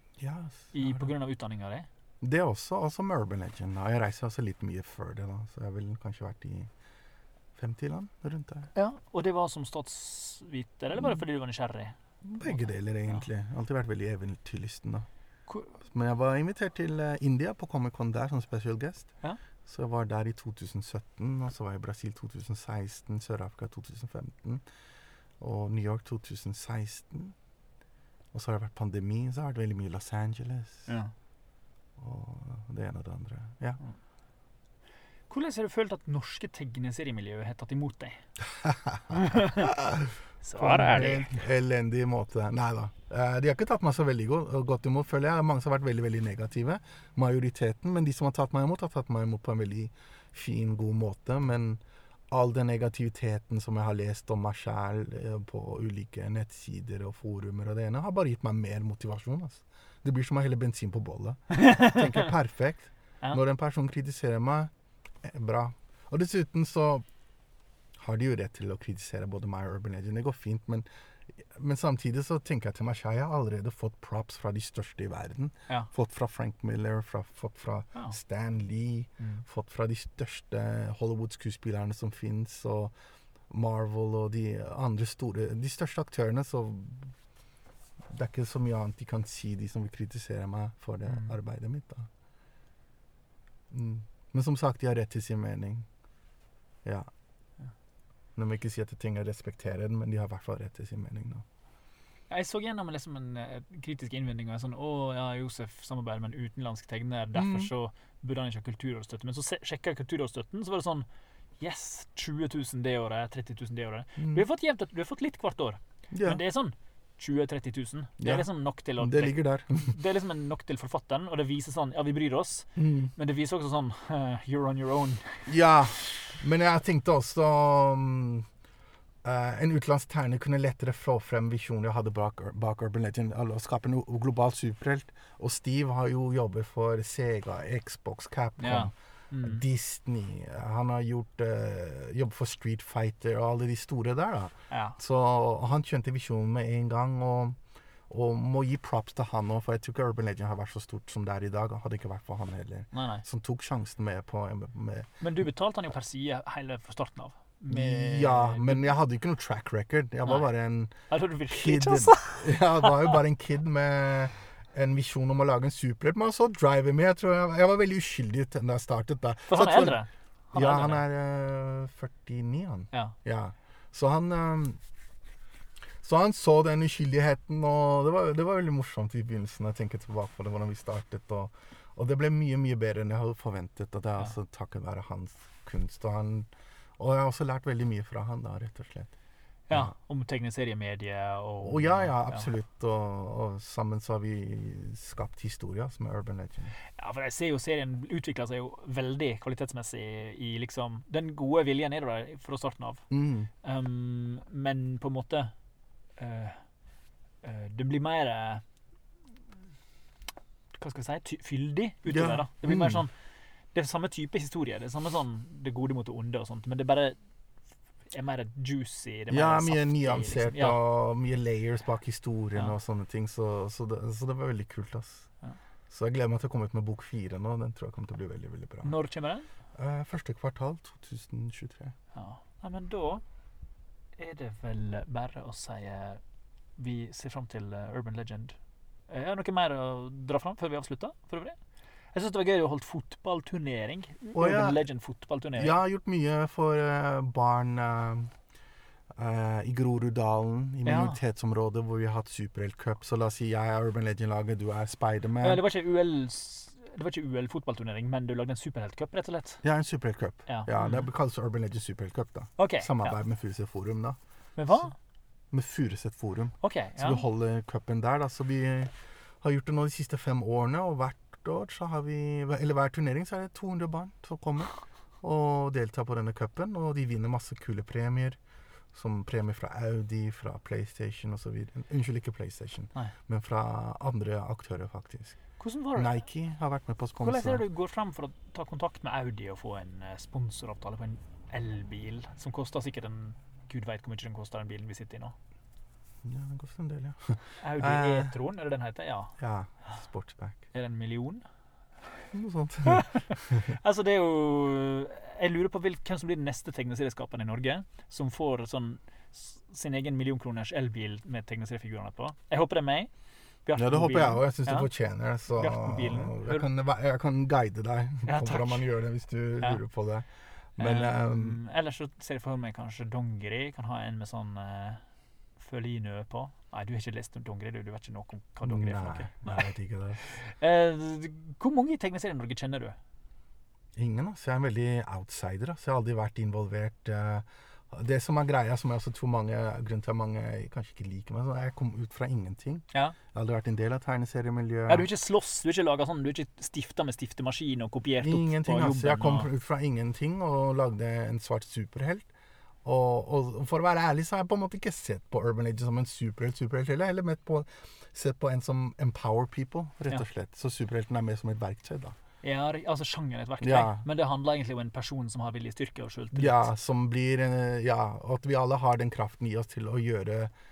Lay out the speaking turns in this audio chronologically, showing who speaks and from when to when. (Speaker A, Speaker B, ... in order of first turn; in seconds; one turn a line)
Speaker A: 0.2-1.1
Speaker B: 0.7-1.9
Speaker A: 2.2-6.7
Speaker A: 7.5-8.7
Speaker B: 8.7-13.2
Speaker A: 10.9-11.2
Speaker A: 12.2-15.1
Speaker B: 15.5-15.8
Speaker A: 15.8-19.1
Speaker A: 19.6-24.6
Speaker A: 25.4-27.3
Speaker A: 28.3-30.9
Speaker B: 30.9-31.1
Speaker A: 32.0-33.8
Speaker B: 35.3-38.2
Speaker A: 38.6-39.1
Speaker B: 39.1-39.7
Speaker A: 39.6-67.0
Speaker B: 40.4-41.4
Speaker B: 61.6-62.0
Speaker A: 68.0-82.9
Speaker A: 83.5-87.1
Speaker A: 88.1-92.1
Speaker B: 91.1-91.3
Speaker A: 93.7-95.9
Speaker A: 96.8-97.1
Speaker A: 98.3-101.4
Speaker B: 102.3-111.1
Speaker A: 107.3-107.7
Speaker B: 111.6-125.5
Speaker A: 114.2-114.4
Speaker A: 116.1-116.4
Speaker A: 118.2-119.9
Speaker A: 122.8-123.1
Speaker A: 125.5-128.5
Speaker A: 129.2-147.6
Speaker B: 138.6-139.6
Speaker B: 144.7-145.0
Speaker A: 148.1-155.1
Speaker B: 152.9-153.2
Speaker B: 155.2-158.9
Speaker A: 157.7-160.9
Speaker B: 161.1-163.2
Speaker A: 161.5-170.0
Speaker B: 169.5-171.0
Speaker A: 170.5-174.8
Speaker A: 176.0-189.1
Speaker B: 189.7-192.5
Speaker A: 191.6-196.7
Speaker B: 196.9-203.1
Speaker A: 203.1-203.5
Speaker B: 203.6-205.5
Speaker B: 206.2-206.6
Speaker B: 207.4-208.6
Speaker B: 210.8-213.1
Speaker A: 212.1-213.0
Speaker B: 213.7-217.2
Speaker B: 218.1-220.8
Speaker A: 219.3-225.3
Speaker A: 225.9-228.9
Speaker B: 228.8-229.5
Speaker A: 229.7-231.9
Speaker B: 232.1-233.2
Speaker B: 234.2-236.2
Speaker B: 236.8-238.6
Speaker B: 239.1-241.6
Speaker B: 242.1-245.7
Speaker A: 244.3-244.8
Speaker A: 245.6-248.3
Speaker A: 249.1-255.6
Speaker B: 250.8-251.2
Speaker B: 255.4-259.6
Speaker A: 259.6-264.2
Speaker B: 260.5-261.1
Speaker B: 262.6-263.1
Speaker B: 264.6-264.9
Speaker A: 265.5-278.4
Speaker B: 266.6-267.2
Speaker A: 278.9-285.4
Speaker B: 285.6-286.1
Speaker A: 285.9-287.6
Speaker B: 287.2-295.3
Speaker A: 296.2-298.3
Speaker B: 297.6-299.4
Speaker A: 299.4-300.6
Speaker B: 300.7-301.4
Speaker A: 302.3-303.7
Speaker B: 302.8-313.1
Speaker B: 313.6-314.9
Speaker A: 313.8-321.6
Speaker B: 315.5-316.7
Speaker B: 318.2-318.9
Speaker B: 320.8-325.0
Speaker B: 325.6-329.7
Speaker A: 328.6-330.4
Speaker B: 330.3-333.0
Speaker A: 333.9-345.1
Speaker B: 344.9-349.5
Speaker A: 348.2-352.3
Speaker A: 352.8-362.1
Speaker B: 362.4-366.7
Speaker A: 363.6-364.0
Speaker A: 366.3-370.5